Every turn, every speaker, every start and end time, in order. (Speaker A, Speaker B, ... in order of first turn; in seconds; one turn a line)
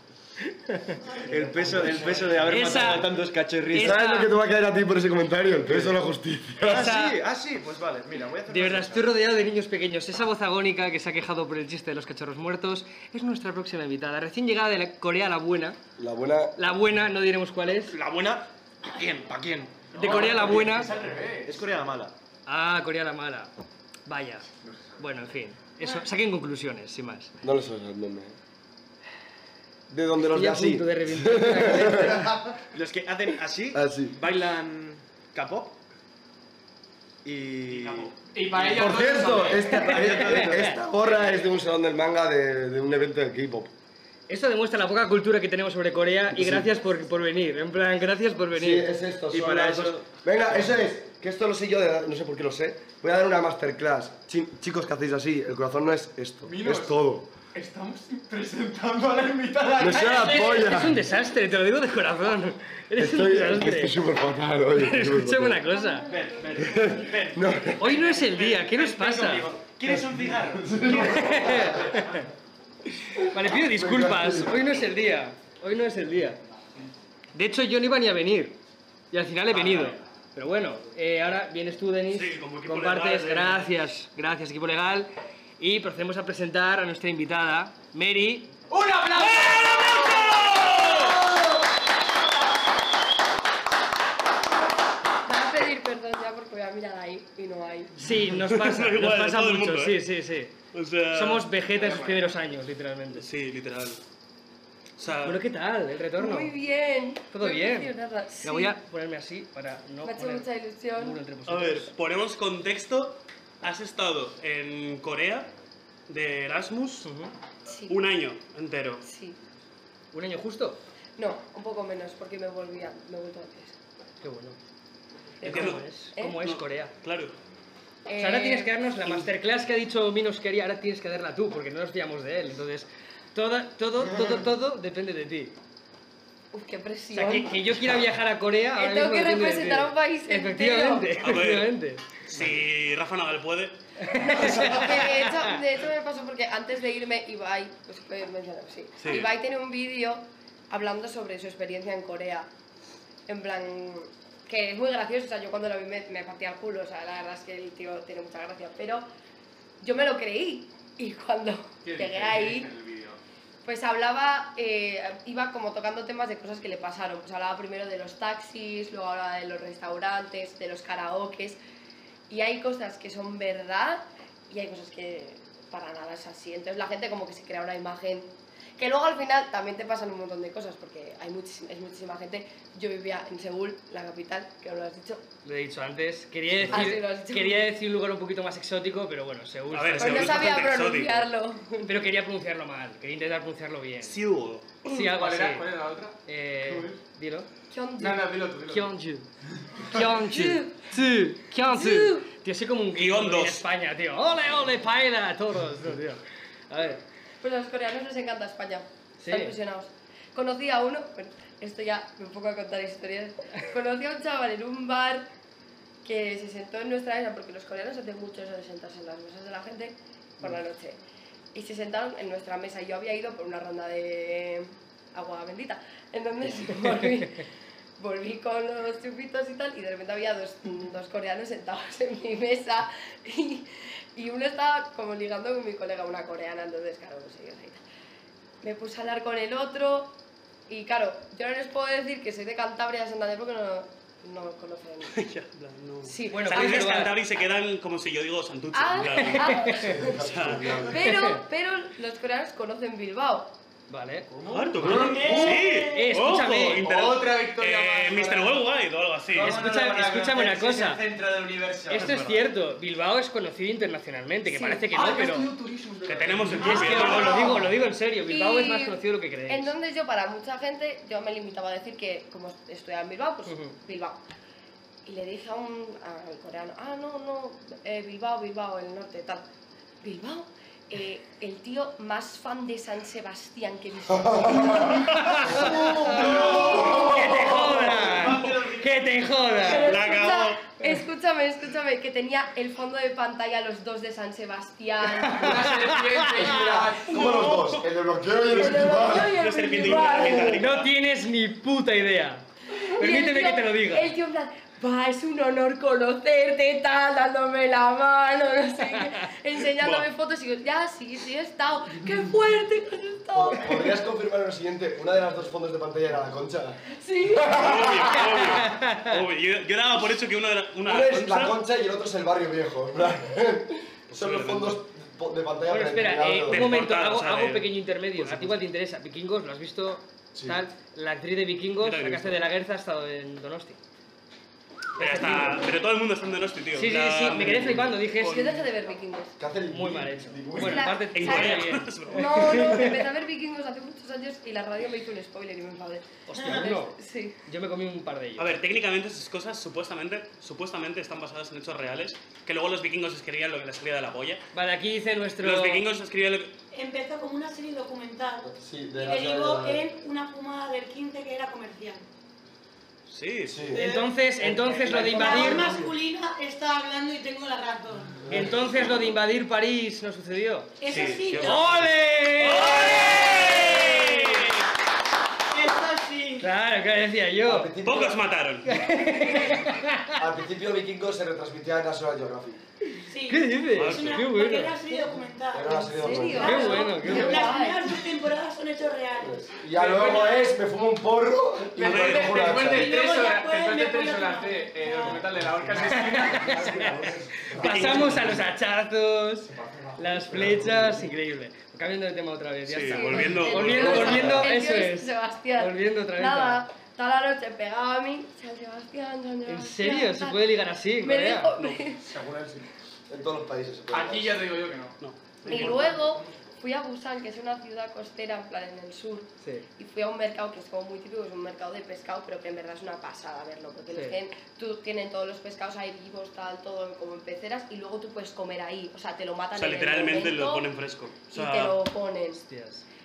Speaker A: 0.5-1.0
Speaker B: 1.2-1.6
Speaker C: 1.3-4.0
Speaker D: 1.9-2.5
Speaker A: 2.4-3.1
Speaker A: 3.7-4.3
Speaker E: 3.8-6.9
Speaker C: 5.7-6.0
Speaker C: 6.6-9.1
Speaker A: 6.6-7.2
Speaker A: 8.5-15.8
Speaker E: 16.0-16.7
Speaker A: 16.6-17.9
Speaker C: 17.9-22.1
Speaker D: 19.9-21.6
Speaker A: 20.0-20.9
Speaker A: 22.5-23.5
Speaker A: 24.1-24.4
Speaker A: 25.0-27.3
Speaker E: 27.4-28.4
Speaker E: 29.9-32.3
Speaker A: 30.2-32.3
Speaker C: 32.2-35.8
Speaker E: 33.7-34.2
Speaker C: 37.2-40.9
Speaker D: 37.7-39.9
Speaker E: 38.6-43.7
Speaker A: 39.7-40.8
Speaker A: 44.3-48.9
Speaker E: 46.3-46.7
Speaker E: 48.5-57.3
Speaker C: 49.3-50.8
Speaker D: 56.4-57.0
Speaker D: 57.5-60.6
Speaker E: 59.8-61.0
Speaker A: 59.9-64.0
Speaker E: 62.9-65.6
Speaker A: 64.7-66.1
Speaker F: 65.7-66.3
Speaker C: 66.1-72.0
Speaker E: 66.6-67.9
Speaker A: 67.8-69.5
Speaker E: 69.8-71.9
Speaker A: 70.9-72.2
Speaker A: 73.2-76.4
Speaker E: 73.4-74.7
Speaker A: 77.3-78.6
Speaker A: 79.1-88.6
Speaker C: 79.5-80.0
Speaker G: 82.1-83.7
Speaker D: 88.7-90.4
Speaker G: 89.1-91.3
Speaker F: 95.2-97.9
Speaker A: 98.0-100.6
Speaker G: 98.3-100.0
Speaker G: 100.7-101.5
Speaker A: 101.1-103.2
Speaker D: 101.8-102.1
Speaker G: 103.1-104.0
Speaker G: 105.0-105.4
Speaker A: 105.2-106.5
Speaker F: 106.2-108.8
Speaker A: 107.3-107.9
Speaker A: 108.4-111.9
Speaker F: 110.0-111.2
Speaker G: 111.5-115.5
Speaker G: 116.1-117.1
Speaker A: 117.0-117.3
Speaker F: 117.7-118.0
Speaker G: 117.9-119.0
Speaker F: 119.0-119.4
Speaker A: 120.1-120.8
Speaker F: 121.2-123.8
Speaker A: 124.2-124.6
Speaker F: 125.4-126.3
Speaker A: 125.4-126.9
Speaker G: 125.4-127.3
Speaker F: 128.1-128.7
Speaker A: 128.2-135.5
Speaker F: 136.5-137.8
Speaker A: 137.1-142.0
Speaker F: 138.8-141.3
Speaker G: 141.1-141.7
Speaker G: 142.2-143.8
Speaker A: 144.0-145.6
Speaker F: 144.3-152.5
Speaker G: 149.0-149.3
Speaker F: 153.3-159.0
Speaker F: 159.8-162.7
Speaker D: 161.8-163.2
Speaker F: 163.6-171.6
Speaker F: 172.3-185.2
Speaker A: 185.4-190.5
Speaker F: 186.6-187.7
Speaker G: 189.7-191.3
Speaker F: 190.0-192.0
Speaker A: 191.8-194.2
Speaker G: 194.0-194.8
Speaker A: 194.8-195.7
Speaker D: 195.1-197.0
Speaker A: 196.2-197.5
Speaker F: 197.7-198.3
Speaker D: 198.0-198.9
Speaker A: 198.7-199.2
Speaker A: 199.8-207.0
Speaker F: 200.2-200.8
Speaker F: 201.7-202.3
Speaker G: 202.9-203.7
Speaker F: 207.4-215.3
Speaker A: 209.2-209.6
Speaker F: 216.0-221.0
Speaker F: 221.5-227.4
Speaker F: 228.0-237.8
Speaker F: 238.6-240.1
Speaker F: 240.7-245.1
Speaker G: 245.1-250.9
Speaker F: 246.1-247.2
Speaker A: 246.3-247.2
Speaker F: 248.7-250.2
Speaker A: 249.2-249.9
Speaker E: 249.8-251.0
Speaker F: 250.7-253.5
Speaker A: 251.0-251.4
Speaker A: 253.9-254.3
Speaker C: 254.3-255.6
Speaker G: 254.5-259.6
Speaker B: 254.9-256.2
Speaker A: 255.9-256.9
Speaker C: 256.8-258.6
Speaker D: 257.1-258.5
Speaker C: 259.3-262.3
Speaker A: 259.4-261.0
Speaker A: 261.9-265.5
Speaker G: 261.9-262.4
Speaker F: 264.4-264.9
Speaker D: 264.9-267.7
Speaker G: 266.0-267.6
Speaker C: 266.2-266.5
Speaker B: 266.6-267.4
Speaker A: 266.6-269.7
Speaker F: 268.3-274.2
Speaker A: 273.5-273.7
Speaker F: 275.1-279.4
Speaker F: 280.0-287.5
Speaker E: 284.2-287.5
Speaker A: 285.2-290.0
Speaker C: 286.1-289.2
Speaker F: 289.6-295.7
Speaker G: 289.6-290.6
Speaker D: 295.0-297.7
Speaker A: 295.3-296.7
Speaker E: 297.0-299.4
Speaker G: 297.1-297.8
Speaker F: 298.5-300.7
Speaker G: 298.6-300.9
Speaker A: 300.2-304.1
Speaker F: 302.8-314.0
Speaker G: 309.8-310.1
Speaker E: 313.3-318.4
Speaker F: 317.0-318.4
Speaker G: 317.4-321.6
Speaker A: 318.4-319.2
Speaker E: 320.9-326.9
Speaker G: 324.1-324.8
Speaker A: 325.7-333.8
Speaker G: 326.4-328.6
Speaker E: 330.3-330.6
Speaker G: 331.8-332.4
Speaker A: 335.0-335.7
Speaker G: 335.0-338.4
Speaker A: 336.7-338.6
Speaker F: 338.1-339.3
Speaker E: 339.4-341.0
Speaker A: 339.7-343.0
Speaker F: 340.5-347.4
Speaker G: 341.1-342.8
Speaker A: 346.2-348.6
Speaker B: 346.3-346.7
Speaker G: 348.4-354.4
Speaker A: 354.5-355.9
Speaker G: 355.4-356.5
Speaker B: 356.7-362.1
Speaker E: 358.4-359.9
Speaker G: 363.1-363.7
Speaker E: 363.4-363.8
Speaker B: 363.7-364.2
Speaker A: 363.7-365.7
Speaker E: 364.4-365.9
Speaker B: 364.9-368.2
Speaker E: 368.2-368.6
Speaker A: 368.3-370.7
Speaker B: 370.8-371.9
Speaker G: 370.9-374.6
Speaker A: 371.3-374.5
Speaker B: 372.5-374.0
Speaker B: 375.5-376.5
Speaker A: 376.4-377.7
Speaker E: 377.4-378.2
Speaker G: 377.8-378.9
Speaker A: 378.6-380.2
Speaker E: 380.1-382.6
Speaker B: 383.1-389.6
Speaker A: 383.3-384.8
Speaker G: 383.7-384.4
Speaker E: 385.5-386.6
Speaker F: 385.7-388.0
Speaker A: 386.4-387.6
Speaker E: 389.2-393.0
Speaker D: 389.8-390.4
Speaker G: 391.8-392.6
Speaker D: 391.8-397.9
Speaker B: 392.6-395.3
Speaker A: 395.7-406.6
Speaker E: 396.7-397.8
Speaker G: 397.6-398.4
Speaker E: 400.2-401.0
Speaker G: 402.6-404.4
Speaker F: 402.9-412.1
Speaker E: 403.7-404.5
Speaker A: 409.4-411.5
Speaker G: 411.5-412.0
Speaker E: 413.1-414.5
Speaker D: 413.9-416.6
Speaker G: 415.0-415.8
Speaker F: 415.4-430.7
Speaker A: 419.4-419.6
Speaker A: 423.9-424.2
Speaker G: 429.5-431.8
Speaker F: 431.3-432.4
Speaker A: 432.4-432.8